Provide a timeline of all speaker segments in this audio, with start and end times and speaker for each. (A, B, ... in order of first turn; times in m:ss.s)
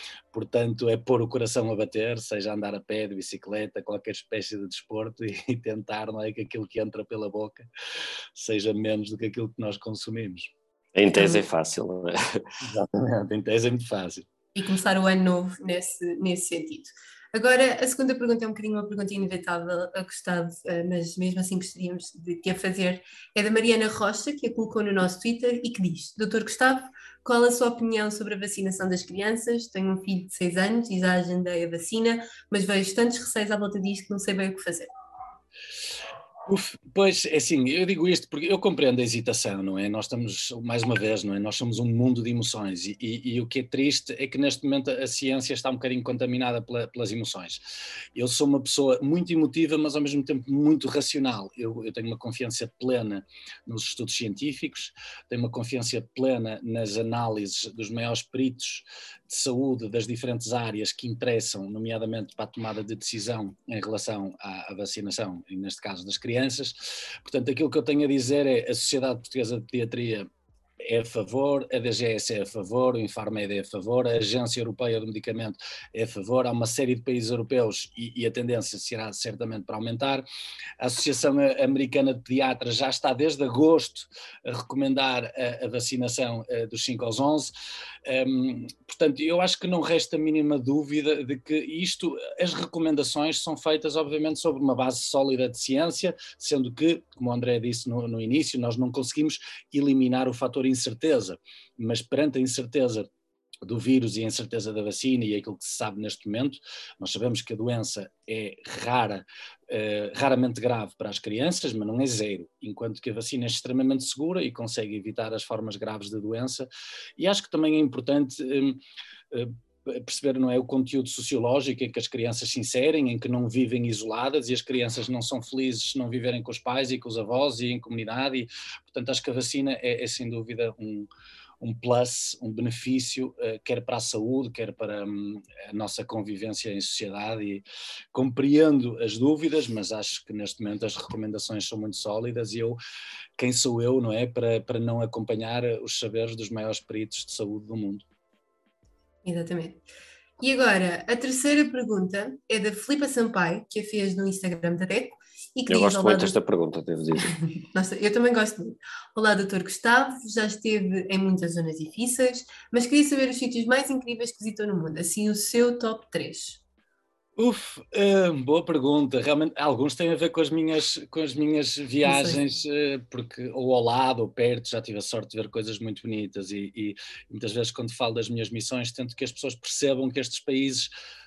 0:00.3-0:07.7 A
0:08.3-0:10.5 A
0:10.9-0:12.4 B
0:11.2-0:11.4 C
0:12.6-0:14.3 A
0:14.5-0:34.9 C
0:36.4-0:47.6 A
0:48.1-1:10.3 A
1:10.8-1:20.2 A
1:20.8-1:27.5 A
1:28.0-1:43.1 A
1:43.6-1:58.8 A
1:59.3-2:11.1 A
2:11.6-2:22.8 A
2:23.4-2:28.0 A
2:29.2-2:29.8 C
2:30.4-2:36.3 C
2:35.7-2:37.4 B
2:37.3-2:46.6 C
2:47.4-3:00.9 A
2:52.0-2:52.4 C